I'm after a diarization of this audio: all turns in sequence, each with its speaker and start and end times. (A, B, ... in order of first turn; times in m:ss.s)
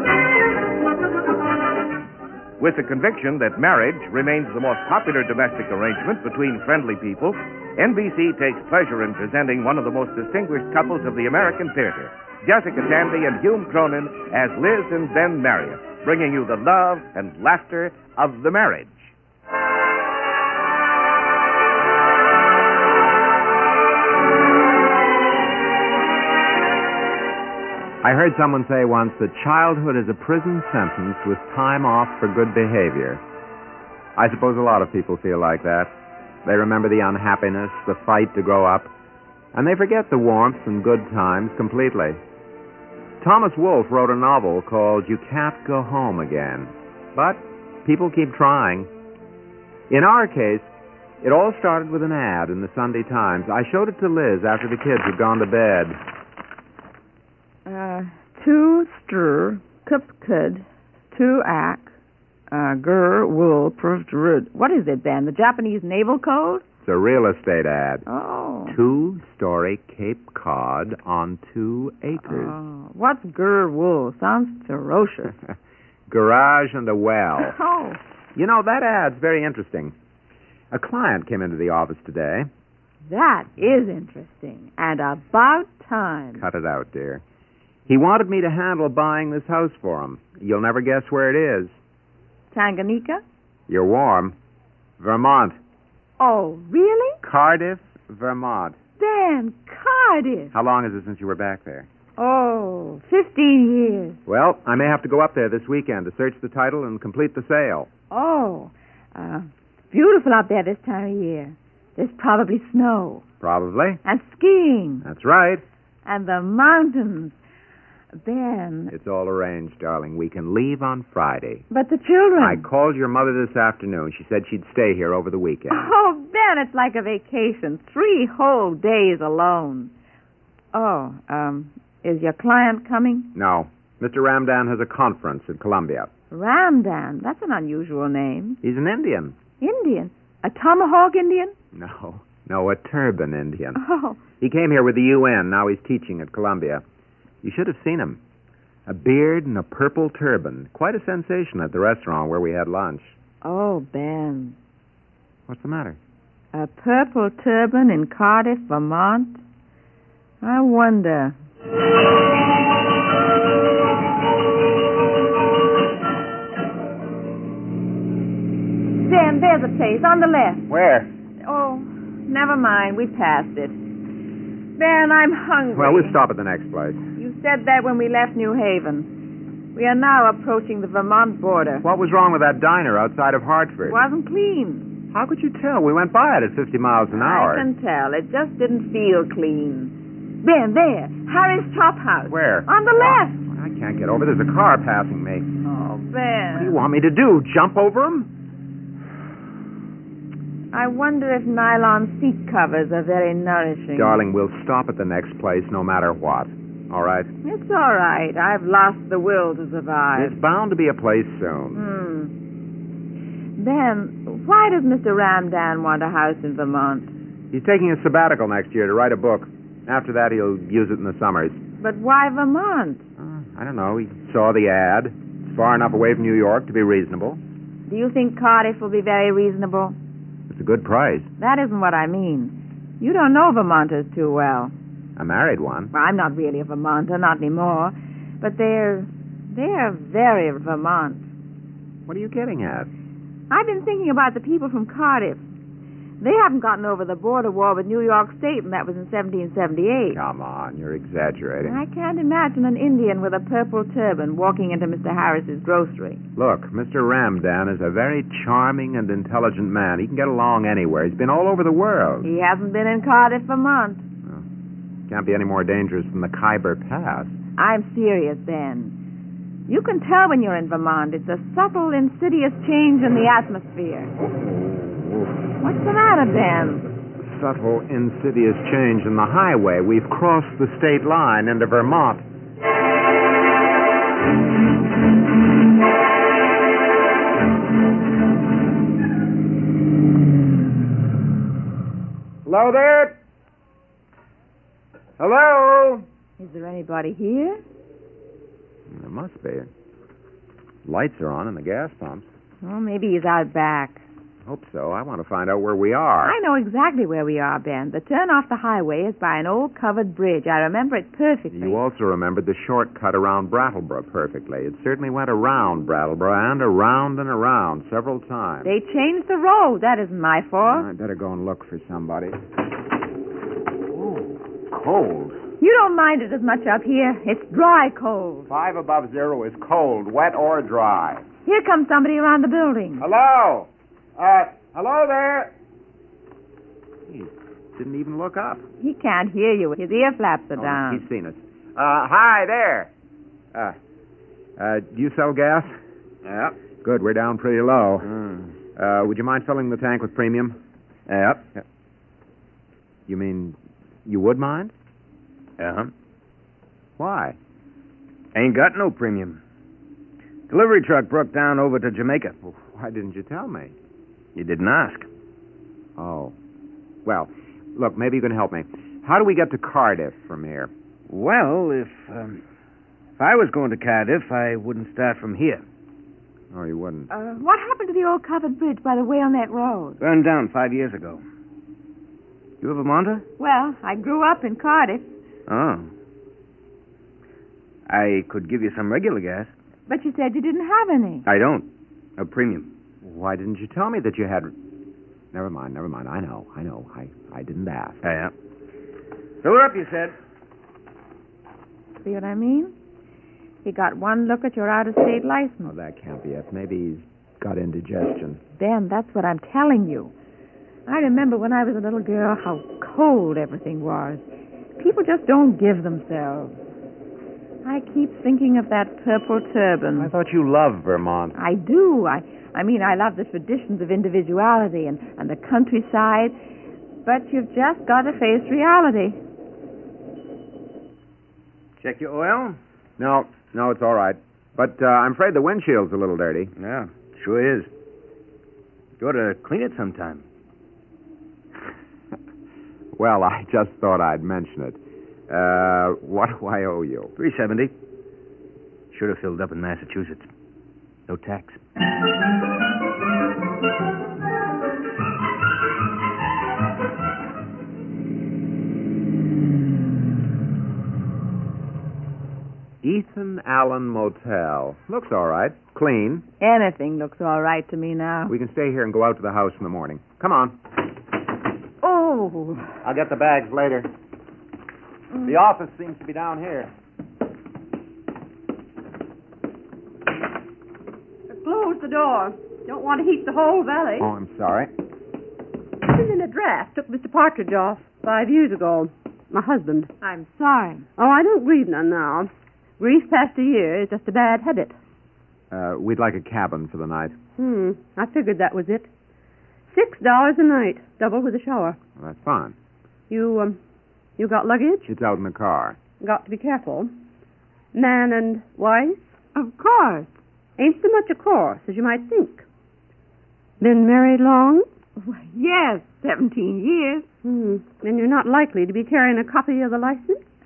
0:02.6-0:19.1 A
0:28.0-0:33.2 B
0:34.2-0:38.9 B
0:39.5-0:42.2 B
0:43.2-0:48.9 B
0:49.9-0:50.7 B
0:51.2-0:56.0 B
0:57.6-1:01.9 C
1:02.5-1:06.6 C
1:06.8-1:08.0 B
1:08.1-1:08.8 C
1:08.7-1:12.6 B
1:12.2-1:15.3 C
1:16.1-1:17.6 B
1:17.4-1:18.0 C
1:18.3-1:19.9 B
1:20.7-1:22.5 B
1:23.1-1:26.4 C
1:26.4-1:27.2 B
1:27.9-1:31.8 B
1:32.5-1:33.2 C
1:33.7-1:34.3 B
1:35.0-1:35.6 B
1:36.2-1:37.2 C
1:37.2-1:38.8 B
1:39.0-1:40.5 C
1:40.5-1:41.9 B
1:42.2-1:44.2 C
1:44.3-1:47.9 B
1:48.1-1:53.2 C
1:53.4-1:54.0 B
1:54.0-1:55.0 C
1:55.0-1:55.6 B
1:56.0-1:57.4 C
1:58.2-1:58.9 C
1:58.9-2:01.6 B
2:01.7-2:02.6 C
2:02.4-2:05.9 B
2:05.7-2:09.9 C
2:10.7-2:13.3 C
2:13.3-2:16.1 B
2:16.3-2:18.6 C
2:18.6-2:19.4 B
2:19.6-2:21.5 C
2:21.7-2:23.8 B
2:23.8-2:24.2 C
2:24.4-2:26.8 B
2:27.4-2:28.2 B
2:28.8-2:33.2 B
2:33.4-2:34.6 C
2:35.5-2:36.0 B
2:36.5-2:39.4 C
2:40.4-2:41.4 C
2:48.9-2:50.7 C
2:50.7-2:51.1 B
2:51.4-2:53.8 C
2:54.8-2:56.2 C
2:55.7-2:57.0 B
2:57.2-2:59.1 C
2:59.7-3:01.8 C
3:01.8-3:04.0 B
3:03.8-3:04.9 C
3:05.1-3:07.6 B
3:07.1-3:13.4 C
3:12.3-3:15.5 B
3:15.6-3:16.8 C
3:16.5-3:18.3 B
3:20.7-3:24.2 C
3:23.9-3:27.3 B
3:27.4-3:30.3 C
3:30.1-3:31.8 B
3:31.7-3:32.3 C
3:33.6-3:37.1 C
3:37.5-3:41.6 B
3:41.8-3:43.0 C
3:43.2-3:47.4 B
3:47.9-3:50.0 C
3:50.5-3:51.3 B
3:51.4-3:54.7 C
3:55.2-3:55.9 B
3:55.9-4:01.3 C
4:02.1-4:02.9 B
4:03.5-4:05.4 C
4:06.2-4:10.2 C
4:10.1-4:11.8 B
4:11.6-4:16.2 C
4:16.4-4:22.3 B
4:22.2-4:24.0 C
4:25.1-4:27.4 B
4:27.6-4:28.9 C
4:29.7-4:34.1 C
4:34.2-4:35.3 B
4:35.6-4:36.9 C
4:37.2-4:42.2 B
4:52.4-4:53.2 B
4:55.2-4:56.0 B
4:56.4-4:57.6 C
4:58.9-4:59.7 B
5:00.8-5:02.3 B
5:02.6-5:04.0 C
5:04.4-5:06.4 B
5:06.2-5:11.8 C
5:11.5-5:18.7 B
5:18.6-5:20.9 C
5:20.6-5:22.4 B
5:23.9-5:25.4 B
5:25.6-5:28.5 C
5:28.5-5:31.2 B
5:31.4-5:33.0 C
5:33.0-5:35.5 B
5:37.1-5:38.6 B
5:38.8-5:41.0 C
5:40.6-5:42.9 B
5:44.6-5:45.7 B
5:46.2-5:46.5 D
5:46.8-5:48.1 B
5:48.0-5:48.5 D
5:48.8-5:50.6 B
5:51.1-5:51.5 D
5:53.1-5:54.7 B
5:55.6-5:55.9 D
5:57.0-5:57.4 B
5:58.3-5:59.4 D
6:00.5-6:02.4 D
6:02.4-6:03.7 B
6:04.3-6:05.1 D
6:06.0-6:06.4 B
6:07.0-6:10.7 B
6:11.1-6:12.4 D
6:13.2-6:15.6 D
6:16.5-6:17.1 B
6:17.1-6:20.0 C
6:20.0-6:21.2 D
6:22.6-6:23.2 D
6:23.4-6:25.1 C
6:25.5-6:25.9 D
6:27.9-6:29.5 D
6:29.9-6:31.2 C
6:31.2-6:32.7 D
6:33.0-6:34.5 B
6:35.3-6:38.0 B
6:38.0-6:38.3 D
6:39.4-6:40.2 D
6:42.0-6:42.7 C
6:43.6-6:45.7 C
6:45.6-6:48.4 B
6:48.6-6:50.1 C
6:50.9-6:54.2 C
6:54.8-6:56.5 C
6:57.6-7:00.1 C
7:00.0-7:01.3 B
7:01.3-7:06.4 C
7:07.0-7:09.2 C
7:11.8-7:12.6 D
7:13.0-7:16.5 B
7:16.6-7:17.7 D
7:19.0-7:20.2 D
7:22.9-7:27.1 B
7:27.2-7:27.7 D
7:28.9-7:30.3 D
7:31.1-7:31.6 D
7:42.8-7:46.2 B
7:46.4-7:48.3 C
7:48.3-7:50.6 B
7:51.8-7:52.7 C
7:52.8-7:53.9 B
7:55.2-7:56.7 B
8:01.3-8:04.1 E
8:04.0-8:04.7 B
8:05.8-8:09.9 E
8:10.0-8:10.8 C
8:11.0-8:14.8 E
8:15.5-8:17.2 B
8:17.4-8:18.9 E
8:19.7-8:21.8 E
8:22.0-8:22.5 B
8:23.1-8:23.6 E
8:24.2-8:24.9 E
8:24.8-8:25.8 B
8:26.0-8:26.9 E
8:27.7-8:29.1 E
8:29.3-8:30.1 C
8:30.6-8:32.4 E
8:33.6-8:34.7 E
8:35.0-8:37.1 C
8:37.2-8:40.2 E